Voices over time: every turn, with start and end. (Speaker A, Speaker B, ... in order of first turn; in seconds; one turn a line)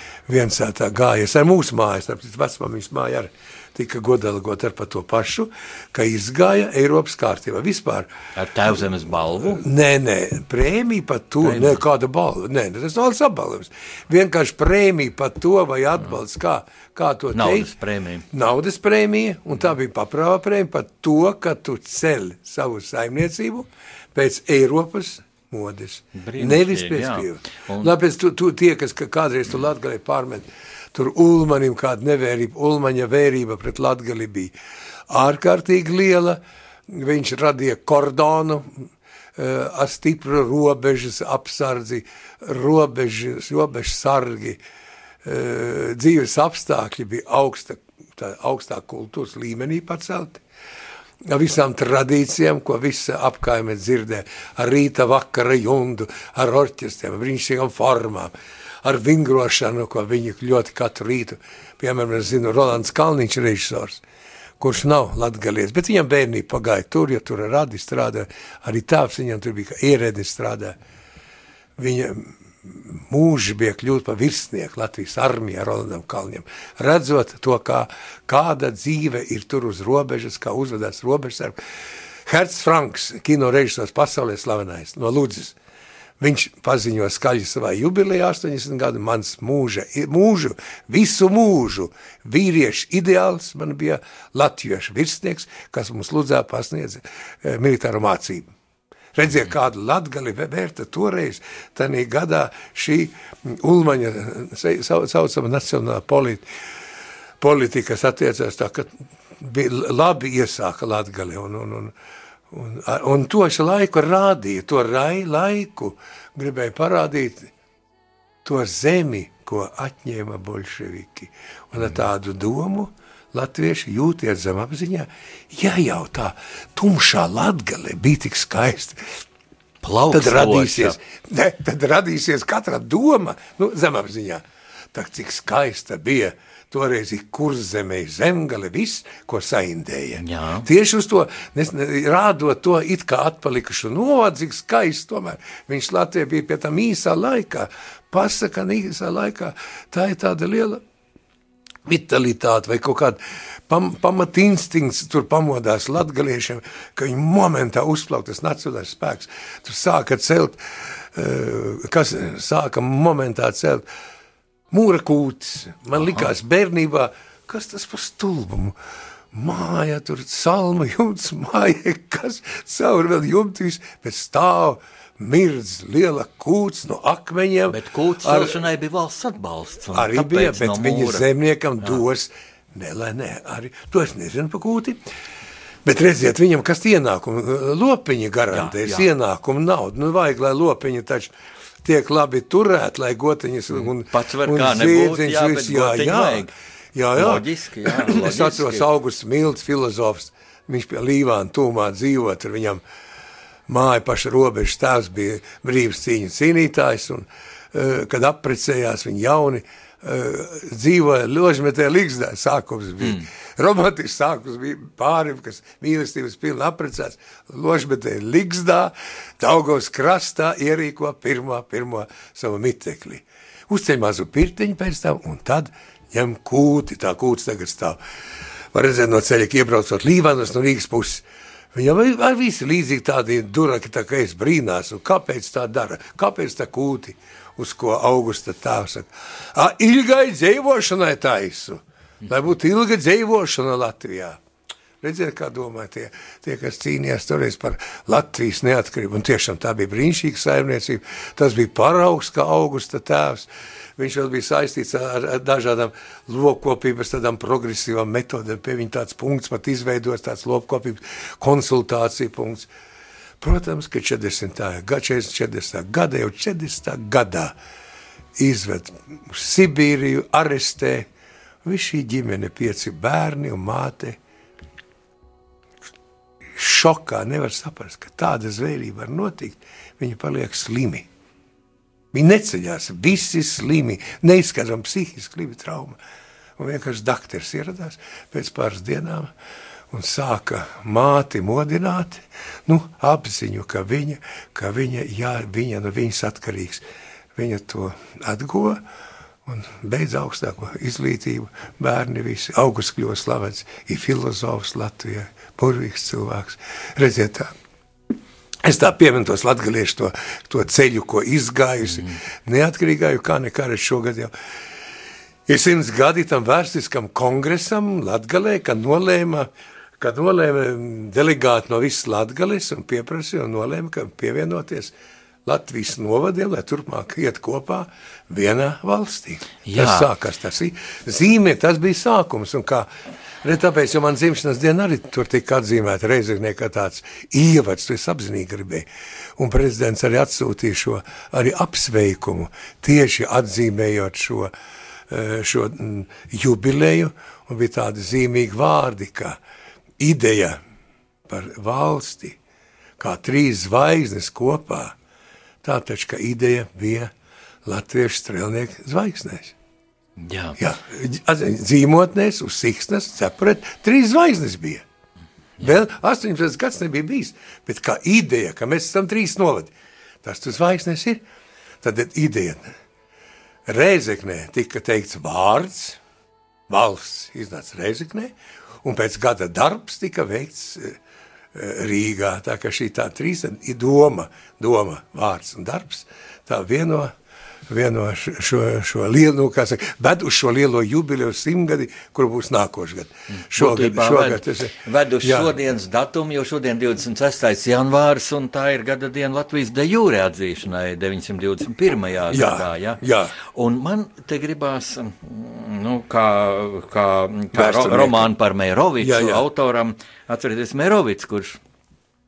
Speaker A: 0.3-8.1
Speaker B: 8.3-9.6
Speaker A: 9.4-17.7
Speaker B: 11.4-11.8
Speaker B: 17.3-18.2
Speaker A: 18.3-34.5
Speaker B: 26.1-27.9
Speaker A: 35.1-44.6
Speaker A: 45.2-50.4
Speaker A: 51.2-58.3
Speaker A: 58.8-64.0
Speaker A: 64.6-70.8
Speaker A: 71.8-81.6
Speaker A: 82.2-85.6
Speaker A: 86.2-98.5
Speaker A: 99.1-106.4
Speaker A: 107.4-111.9
Speaker A: 112.5-117.5
Speaker A: 118.4-129.2
Speaker B: 129.8-130.9
Speaker A: 130.1-134.4
Speaker A: 134.9-150.8
Speaker B: 140.2-140.7
Speaker A: 151.8-163.8
Speaker A: 164.7-168.8
Speaker B: 165.9-166.3
Speaker A: 169.3-178.6
Speaker B: 177.7-181.2
Speaker A: 179.9-185.0
Speaker A: 185.8-202.8
Speaker B: 188.5-189.1
Speaker B: 193.7-196.5
Speaker B: 197.2-198.9
Speaker A: 203.7-228.0
Speaker A: 228.7-244.4
Speaker A: 245.0-262.7
Speaker A: 263.4-267.5
Speaker A: 268.4-271.1
Speaker A: 271.6-274.2
Speaker A: 276.5-281.1
Speaker A: 282.1-286.0
Speaker A: 286.6-289.3
Speaker A: 289.9-296.8
Speaker A: 297.3-298.8
Speaker A: 299.4-307.5
Speaker A: 308.6-314.3
Speaker B: 311.9-312.2
Speaker A: 315.5-319.5
Speaker A: 320.0-324.9
Speaker A: 325.4-332.9
Speaker B: 329.6-330.1
Speaker A: 333.4-344.5
Speaker A: 345.1-349.4
Speaker A: 350.0-350.6
Speaker A: 351.3-352.4
Speaker A: 353.0-354.9
Speaker A: 355.6-357.1
Speaker A: 357.6-359.5
Speaker B: 360.2-360.6
Speaker A: 360.6-364.8
Speaker A: 365.6-369.7
Speaker A: 370.2-371.2
Speaker A: 371.8-372.7
Speaker A: 373.7-376.0
Speaker A: 376.7-381.0
Speaker A: 381.5-387.1
Speaker A: 387.7-395.5
Speaker B: 393.5-411.6
Speaker A: 402.3-403.3
Speaker A: 407.5-408.3
Speaker A: 409.0-409.4